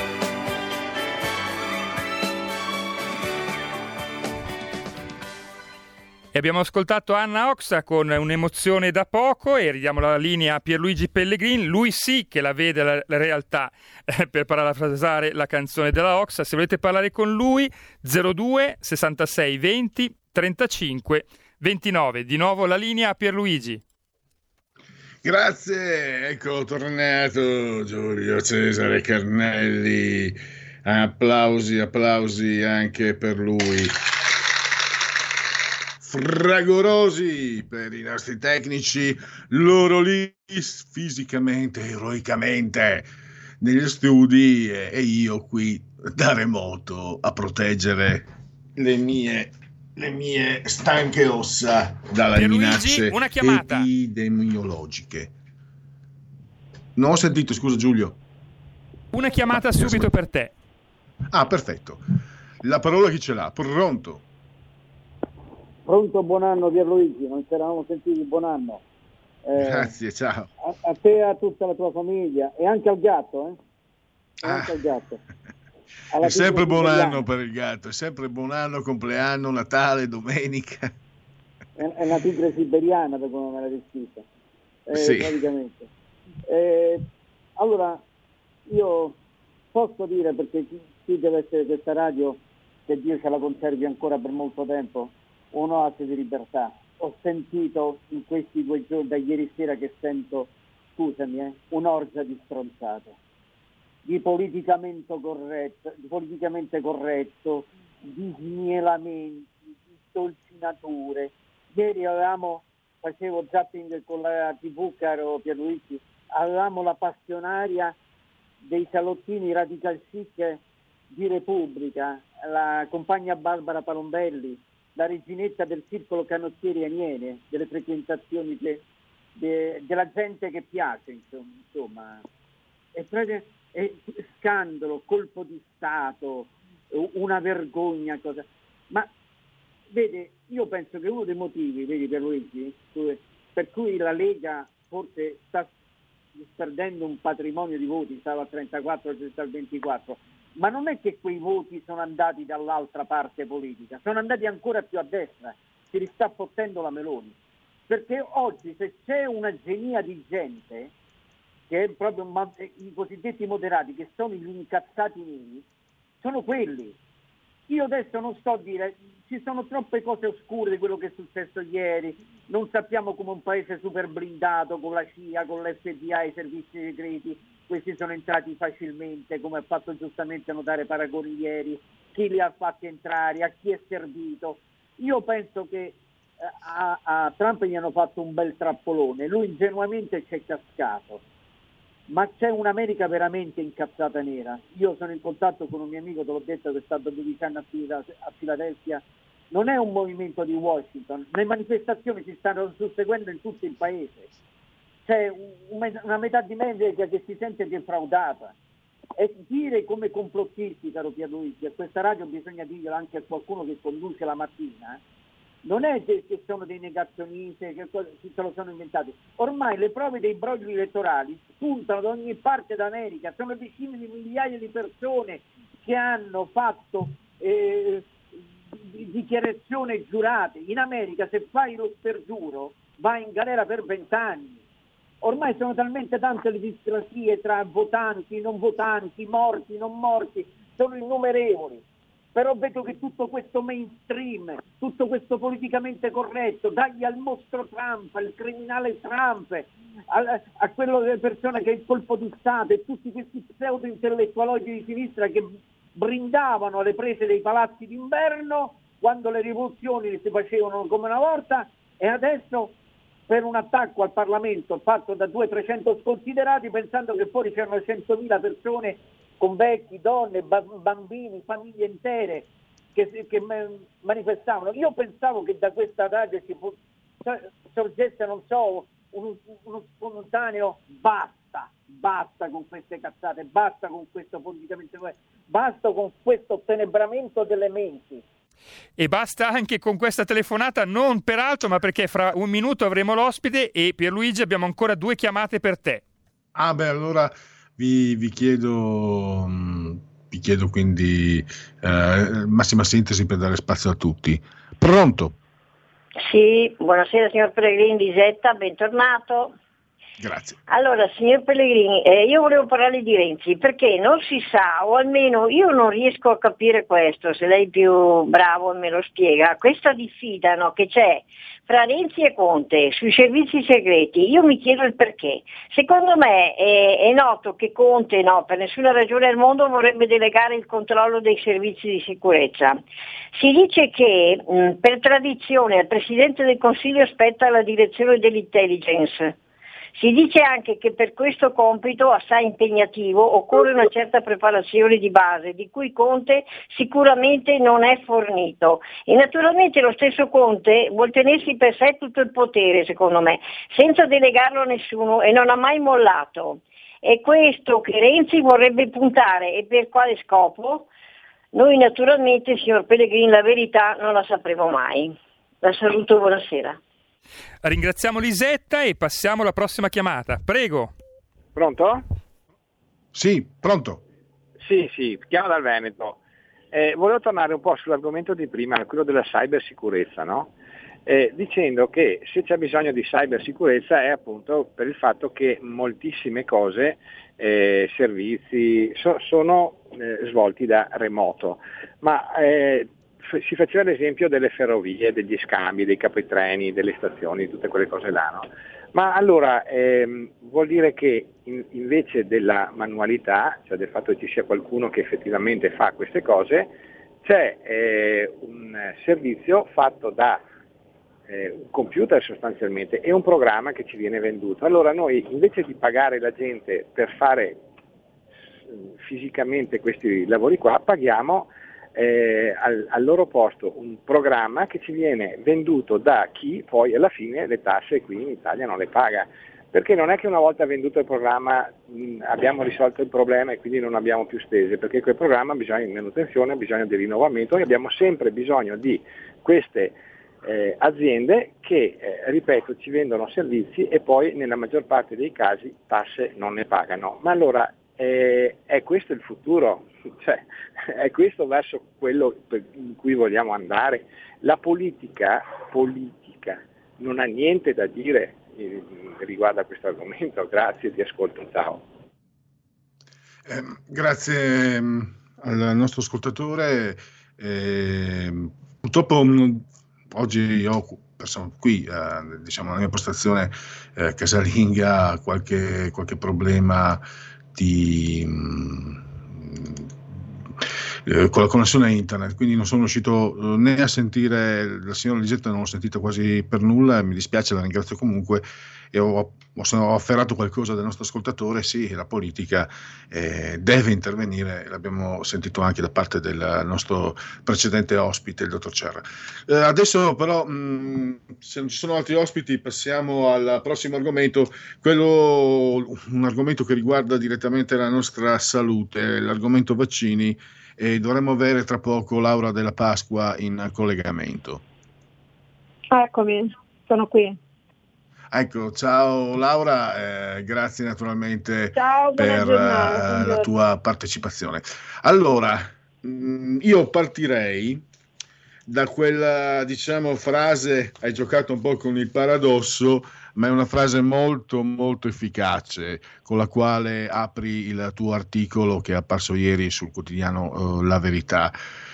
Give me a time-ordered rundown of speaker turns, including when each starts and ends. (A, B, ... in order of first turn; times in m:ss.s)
0:06.3-0:23.8 A
0:25.2-0:34.0 B
0:36.0-0:43.1 B
0:43.6-0:55.3 B
0:52.4-0:53.9 A
0:57.0-0:58.2 B
0:59.1-1:00.5 A
0:59.6-1:00.1 B
1:01.3-1:02.0 B
1:02.6-1:04.2 B
1:05.9-1:08.8 C
1:09.5-1:10.0 C
1:09.6-1:10.5 B
1:10.6-1:13.6 C
1:14.4-1:14.8 B
1:14.4-1:15.2 C
1:16.1-1:17.2 C
1:16.2-1:20.9 B
1:21.8-1:24.2 C
1:24.9-1:25.9 C
1:24.9-1:25.4 B
1:26.5-1:27.0 C
1:27.6-1:28.0 C
1:28.7-1:29.2 C
1:29.7-1:43.2 C
1:44.0-1:58.0 C
1:58.6-2:08.8 C
2:09.4-2:12.2 C
2:13.0-2:19.1 C
2:19.9-2:25.7 C
2:26.4-2:37.4 C
2:37.9-2:40.9 C
2:41.7-2:45.6 C
2:46.2-2:47.0 C
2:47.7-3:06.0 C
3:06.6-3:11.2 C
3:12.1-3:24.3 C
3:25.0-3:28.5 C
3:29.2-3:35.0 C
3:35.6-3:48.1 C
3:48.8-3:54.6 C
3:55.2-4:22.8 C
4:23.3-4:48.2 C
4:49.0-4:56.0 A
4:56.6-5:05.4 B
5:06.2-5:09.5 D
5:10.2-5:10.6 B
5:10.7-5:32.8 D
5:33.3-5:39.4 D
5:40.0-6:00.9 D
6:01.5-6:06.8 D
6:07.6-6:10.9 A
6:11.6-6:12.0 E
6:13.2-6:14.0 B
6:14.6-6:16.2 E
6:16.7-6:20.5 E
6:21.1-6:50.4 E
6:51.3-6:57.6 E
6:58.7-7:41.8 E
7:43.5-7:57.0 B
7:57.5-7:59.9 B
8:01.1-8:34.6 B
8:35.9-8:37.4 F
8:38.3-8:47.8 B
8:41.7-8:43.5 F
8:48.7-9:01.6 B